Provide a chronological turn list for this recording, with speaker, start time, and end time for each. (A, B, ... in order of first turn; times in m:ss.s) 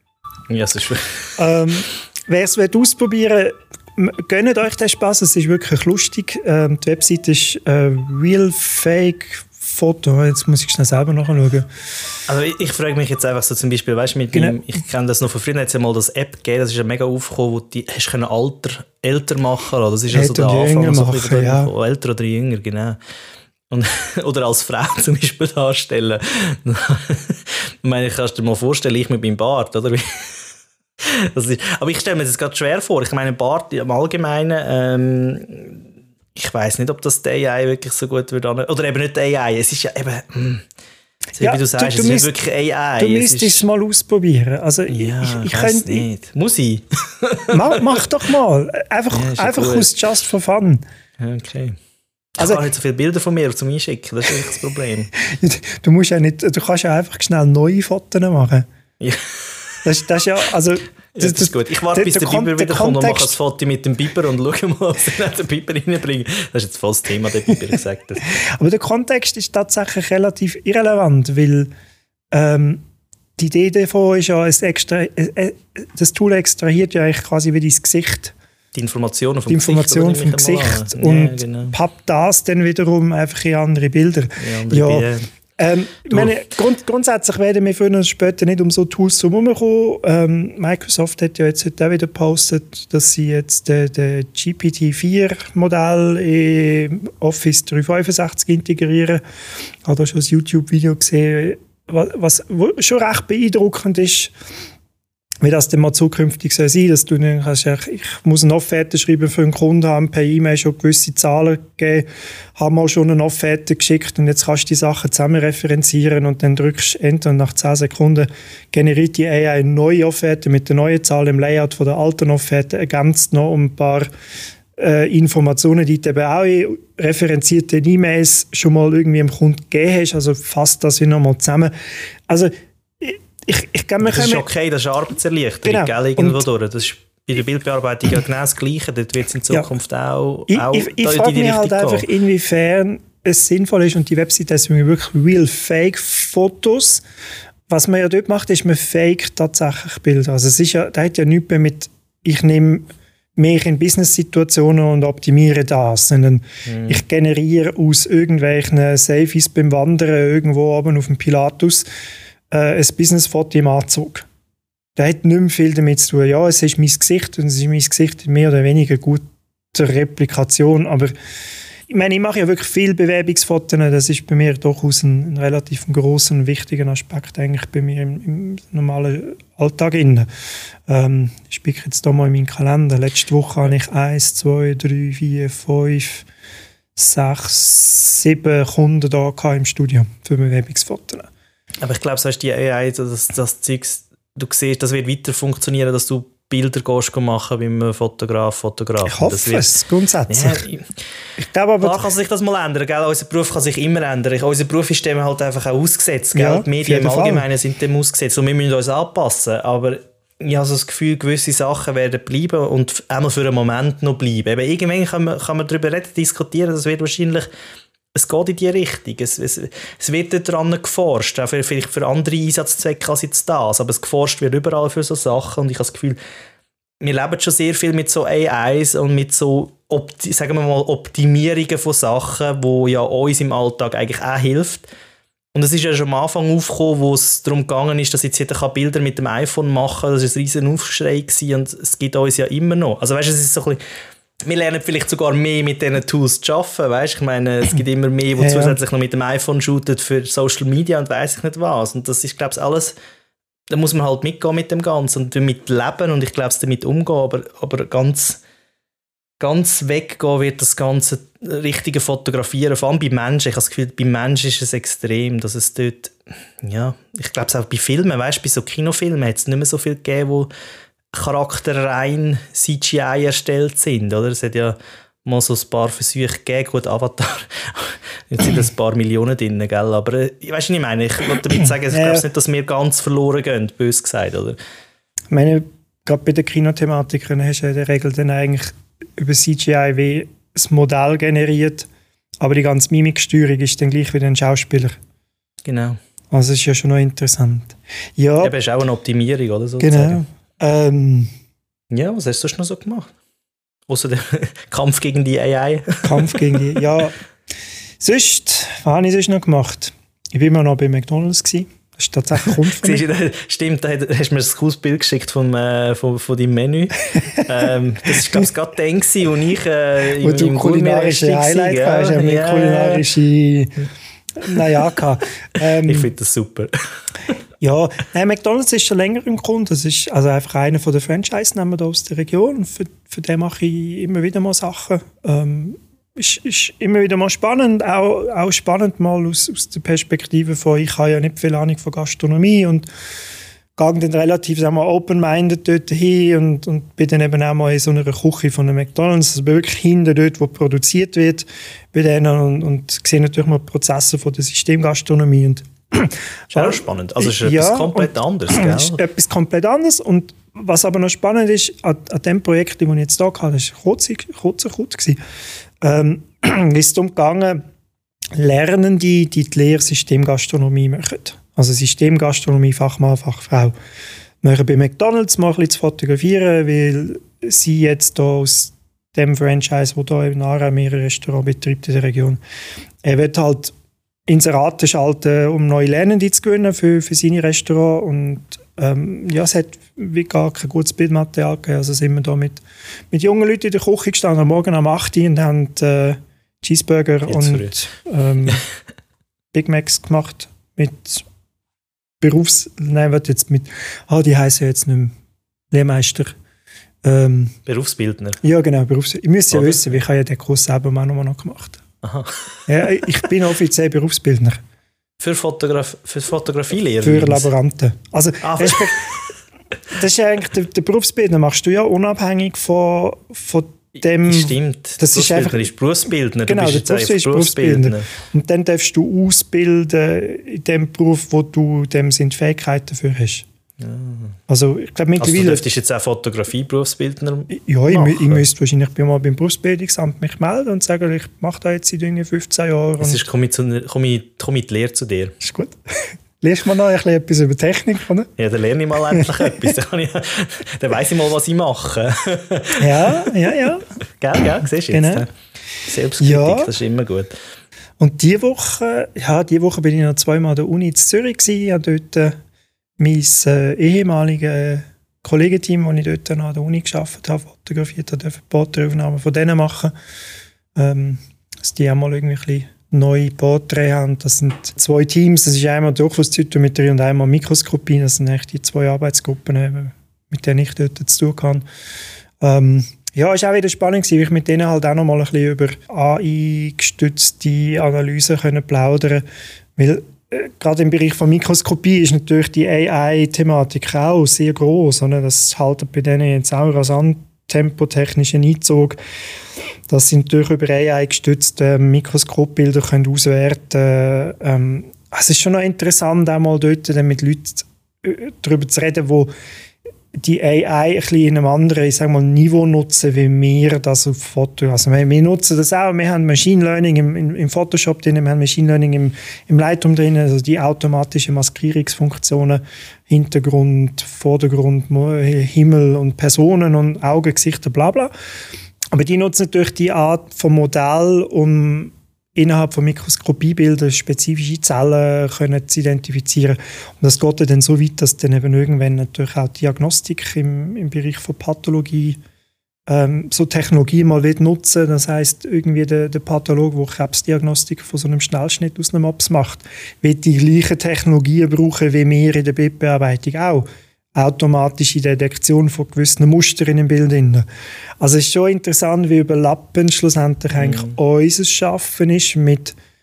0:00.5-0:01.3 A
0:01.4-0:11.7 B
0:12.3-0:23.0 A
0:14.3-0:14.6 B
0:20.1-0:21.7 B
0:23.7-0:30.4 A
0:31.0-0:40.6 A
0:41.4-0:42.3 B
0:41.4-0:43.6 A
0:43.0-0:46.0 B
0:44.9-0:48.0 A
0:47.5-0:50.8 B
0:49.1-0:49.9 A
0:51.2-0:51.8 A
0:52.3-0:55.1 A
0:55.2-0:58.6 B
0:59.0-0:59.8 A
0:59.8-1:03.3 B
1:01.1-1:08.2 A
1:08.3-1:11.7 B
1:12.3-1:12.8 B
1:13.4-1:18.3 B
1:18.7-1:21.7 A
1:19.5-1:39.2 B
1:24.4-1:25.2 A
1:26.1-1:26.4 A
1:39.8-1:44.3 B
1:45.4-2:04.1 B
2:04.8-2:11.7 B
2:12.3-2:14.4 B
2:14.0-2:22.0 A
2:15.6-2:16.4 B
2:20.5-2:27.0 B
2:27.7-2:41.8 B
2:36.6-2:37.0 A
2:42.5-2:44.2 B
2:45.0-2:51.1 B
2:51.9-3:00.3 B
3:00.9-3:06.2 B
3:07.0-3:11.3 B
3:11.8-3:19.7 A
3:19.0-3:20.7 B
3:20.3-3:20.9 A
3:21.4-3:22.1 B
3:21.8-3:37.5 A
3:26.3-3:27.4 B
3:38.1-3:46.2 A
3:47.0-3:54.9 A
3:55.5-4:03.8 A
4:04.4-4:12.9 A
4:08.4-4:08.8 B
4:13.7-4:18.4 A
4:19.4-4:30.5 A
4:31.1-4:44.6 A
4:41.8-4:42.2 B
4:45.3-4:51.9 B
4:52.4-4:55.0 B
4:55.6-4:56.0 A
4:56.3-4:58.6 B
4:58.4-5:00.2 A
4:59.8-5:01.3 B
5:01.9-5:03.1 A
5:03.9-5:06.7 A
5:06.0-5:07.2 B
5:08.0-5:13.0 B
5:12.5-5:23.0 A
5:20.2-5:23.8 B
5:24.4-5:26.1 B
5:25.7-5:26.7 A
5:27.6-5:42.9 B
5:43.8-6:05.2 B
5:56.5-5:59.0 A
6:05.8-6:07.6 B
6:08.3-6:13.7 B
6:14.4-6:22.4 B
6:23.0-6:23.7 B
6:24.3-6:38.6 B
6:37.3-6:37.7 A
6:39.5-6:41.2 B
6:42.2-6:45.1 B
6:45.7-6:46.4 B
6:47.0-6:47.6 B
6:47.6-6:48.4 A
6:48.4-6:51.8 B
6:49.5-6:50.0 A
6:52.0-6:52.7 A
6:52.7-6:54.6 B
6:55.2-6:57.5 A
6:57.0-6:59.2 B
6:58.4-6:59.2 A
6:59.9-7:05.7 B
7:04.2-7:08.1 A
7:06.5-7:13.4 B
7:13.8-7:14.4 A
7:14.5-7:15.6 B
7:15.2-7:18.4 A
7:17.5-7:23.2 B
7:23.0-7:25.3 A
7:25.4-7:25.8 B
7:26.4-7:28.3 B
7:28.4-7:33.3 A
7:29.1-7:29.7 B
7:32.8-7:33.8 B
7:34.2-7:35.3 A
7:34.9-7:35.3 B
7:35.8-7:37.3 A
7:36.2-7:36.7 B
7:38.0-7:42.4 B
7:43.0-7:49.9 B
7:50.8-8:01.6 B
8:02.4-8:09.2 B
8:09.8-8:19.0 B
8:19.9-8:29.3 B
8:30.1-8:48.1 B
8:48.9-9:02.2 B
9:02.9-9:17.4 B
9:18.0-9:22.8 B
9:20.6-9:21.0 A